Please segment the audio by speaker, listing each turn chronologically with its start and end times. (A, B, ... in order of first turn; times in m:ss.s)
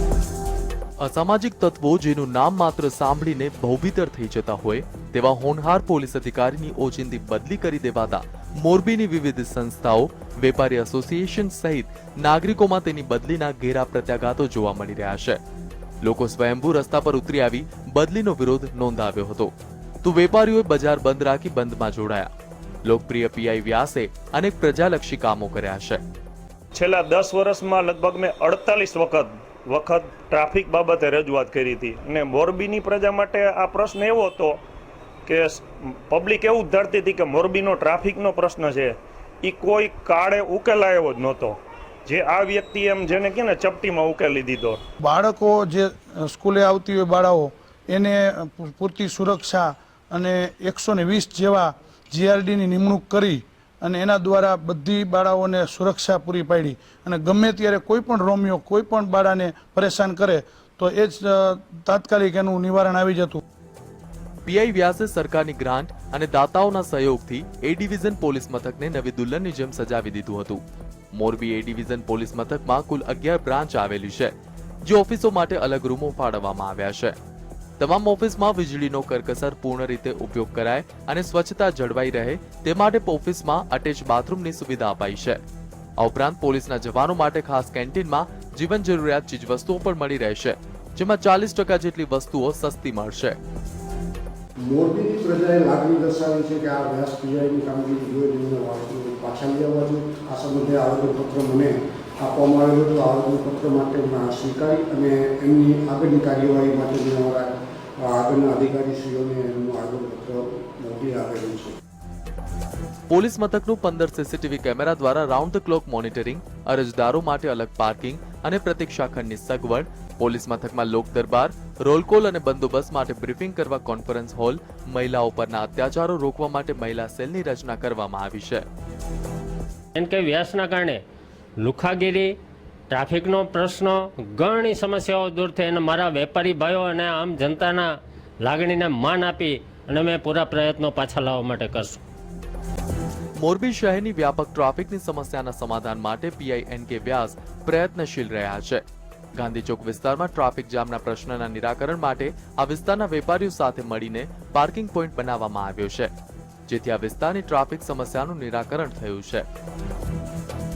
0:01.0-0:15.4 A
0:16.0-0:19.5 A
0:20.0-0:22.3 A
0:22.8-0:26.0 A
0:26.7-0:34.6 B
0:35.2-0:44.8 B
0:45.0-1:03.4 C
1:04.4-1:10.6 A
1:11.1-1:14.3 A
1:14.8-1:17.2 A
1:17.8-1:25.4 A
1:26.0-1:33.4 A
1:34.6-1:51.7 D
1:53.1-2:08.6 A
2:09.9-2:11.0 E
2:11.6-2:12.4 E
2:12.9-2:22.0 E
2:23.4-2:28.8 A
2:29.4-2:36.1 A
2:36.7-2:39.4 A